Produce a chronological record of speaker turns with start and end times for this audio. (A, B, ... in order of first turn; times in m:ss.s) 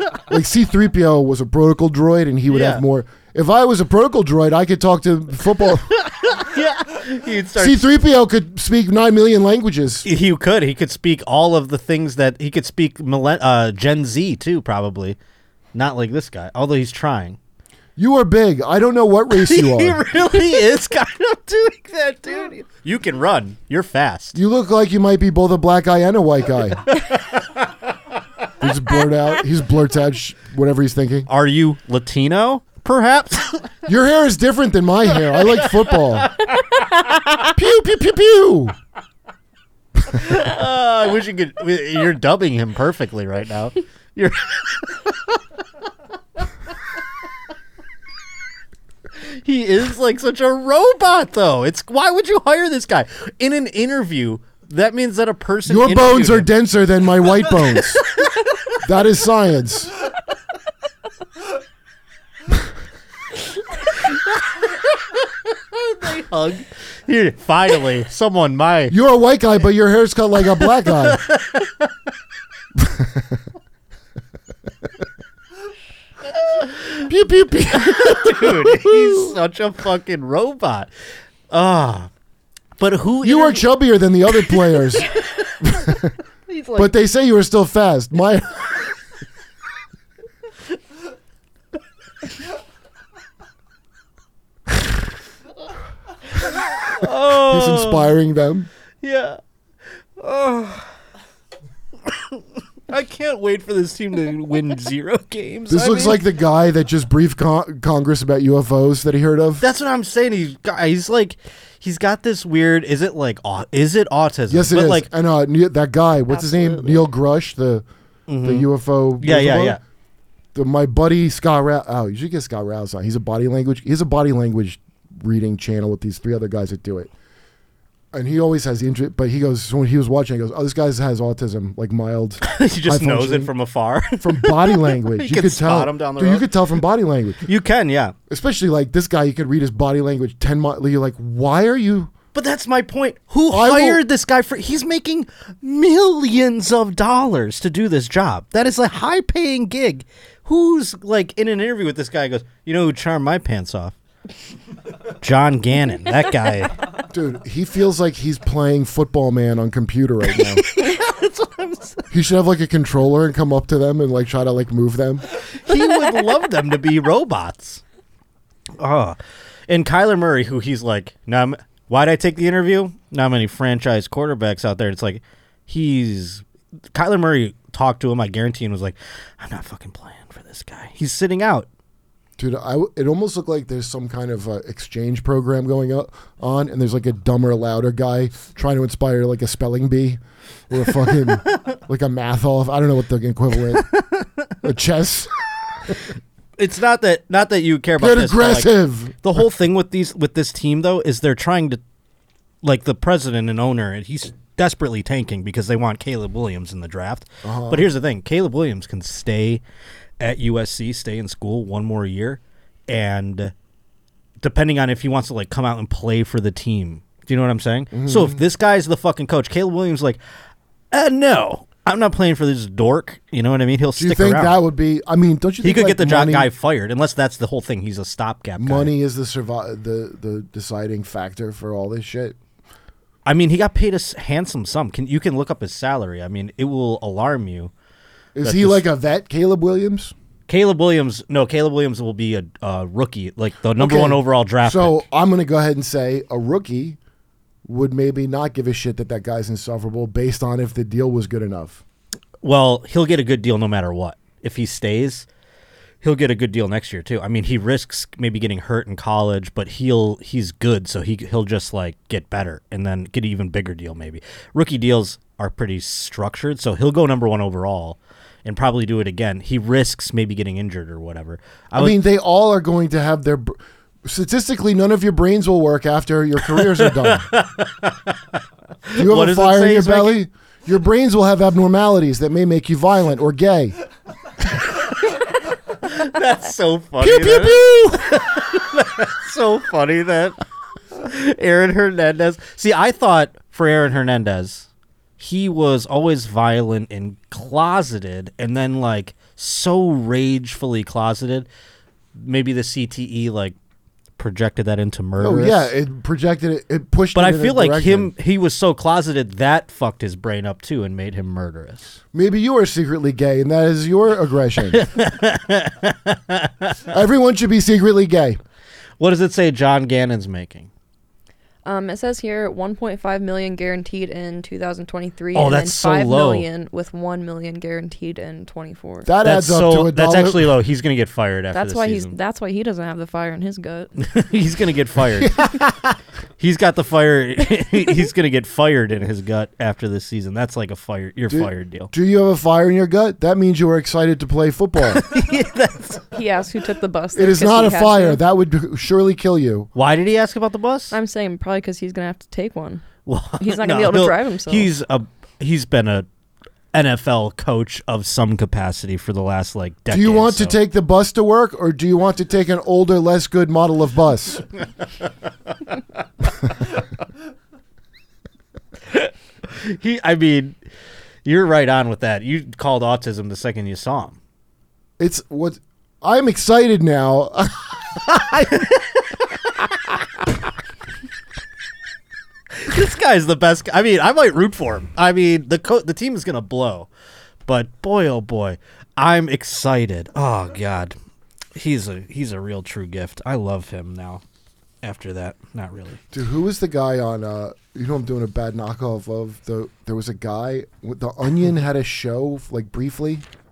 0:00.3-0:06.0 A
0:02.5-0:02.8 B
0:05.9-0:07.9 B
0:07.6-0:10.0 A
0:10.0-0:15.2 B
0:15.7-0:17.4 B
0:18.0-0:20.4 A
0:19.3-0:24.4 B
0:24.3-0:26.8 A
0:26.9-0:27.9 B
0:28.6-0:31.3 A
0:31.3-0:33.7 B
0:33.8-0:36.3 A
0:35.6-0:36.5 B
0:37.5-0:38.7 A
0:40.0-0:45.3 B
0:49.2-0:56.5 B
0:55.6-0:58.1 A
0:58.8-0:59.9 A
1:03.8-1:08.9 B
1:08.9-1:11.2 A
1:10.6-1:11.9 B
1:12.8-1:13.4 A
1:16.4-1:17.1 B
1:17.1-1:19.3 A
1:17.7-1:20.9 B
1:21.5-1:22.1 B
1:22.8-1:23.7 B
1:23.2-1:25.1 A
1:24.4-1:26.9 B
1:25.6-1:26.1 A
1:26.8-1:28.9 A
1:36.4-1:38.1 B
1:37.0-1:38.7 A
1:39.0-1:39.4 B
1:40.2-1:40.9 B
1:42.1-1:46.2 B
1:45.7-1:49.7 A
1:49.6-1:55.1 B
1:54.5-1:57.8 A
1:56.3-1:57.0 C
1:58.3-1:59.8 B
1:58.4-1:59.8 A
2:00.5-2:07.1 A
2:08.1-2:13.5 A
2:12.4-2:16.5 B
2:14.2-2:17.4 A
2:17.4-2:18.1 B
2:18.3-2:22.1 A
2:22.3-2:34.0 B
2:23.5-2:24.0 A
2:35.2-2:36.8 B
2:37.1-2:40.6 A
2:40.4-2:42.1 B
2:42.1-2:45.2 A
2:45.5-2:47.8 B
2:48.8-2:49.2 B
2:49.7-3:01.7 B
3:02.4-3:13.9 A
3:13.8-3:14.2 B
3:14.6-3:16.0 A
3:16.6-3:21.8 B
3:18.0-3:19.4 A
3:22.6-3:29.6 B
3:27.4-3:27.9 A
3:30.2-3:33.5 B
3:34.4-3:40.2 B
3:37.9-3:38.4 A
3:40.9-3:44.6 B
3:44.0-3:46.5 A
3:45.6-3:48.9 B
3:48.6-3:52.4 A
3:53.2-3:57.7 B
3:58.4-4:00.1 A
3:58.4-3:58.9 B
4:00.5-4:05.0 B
4:03.8-4:07.0 A
4:07.6-4:11.8 A
4:12.4-4:15.3 B
4:16.0-4:32.0 B
4:31.8-4:37.3 A
4:36.5-4:40.2 B
4:39.0-4:43.7 A
4:44.6-4:45.0 B
4:45.8-4:50.4 B
4:47.0-4:48.0 A
4:50.9-5:01.5 B
5:02.1-5:03.6 B
5:04.2-5:05.7 B
5:05.2-5:08.1 A
5:07.1-5:12.0 B
5:12.1-5:14.8 A
5:14.7-5:16.8 B
5:16.9-5:18.4 A
5:19.0-5:20.7 B
5:21.6-5:29.1 C
5:25.3-5:26.4 B
5:29.0-5:30.6 A
5:29.2-5:32.1 B
5:31.5-5:33.9 C
5:34.0-5:41.9 B
5:35.2-5:35.6 A
5:41.3-5:45.0 A
5:44.9-5:46.0 B
5:46.1-5:48.2 C
5:47.1-5:49.7 A
5:49.7-5:51.0 B
5:50.9-5:52.8 C
5:53.0-5:56.1 B
5:53.4-5:54.7 C
5:56.7-6:00.6 B
5:59.9-6:04.4 A
6:08.9-6:10.6 B
6:11.2-6:14.2 B
6:15.0-6:18.4 A
6:18.1-6:19.7 B
6:22.6-6:26.9 B
6:27.5-6:31.0 B
6:31.6-6:34.2 B
6:34.8-6:36.0 B
6:36.1-6:43.2 A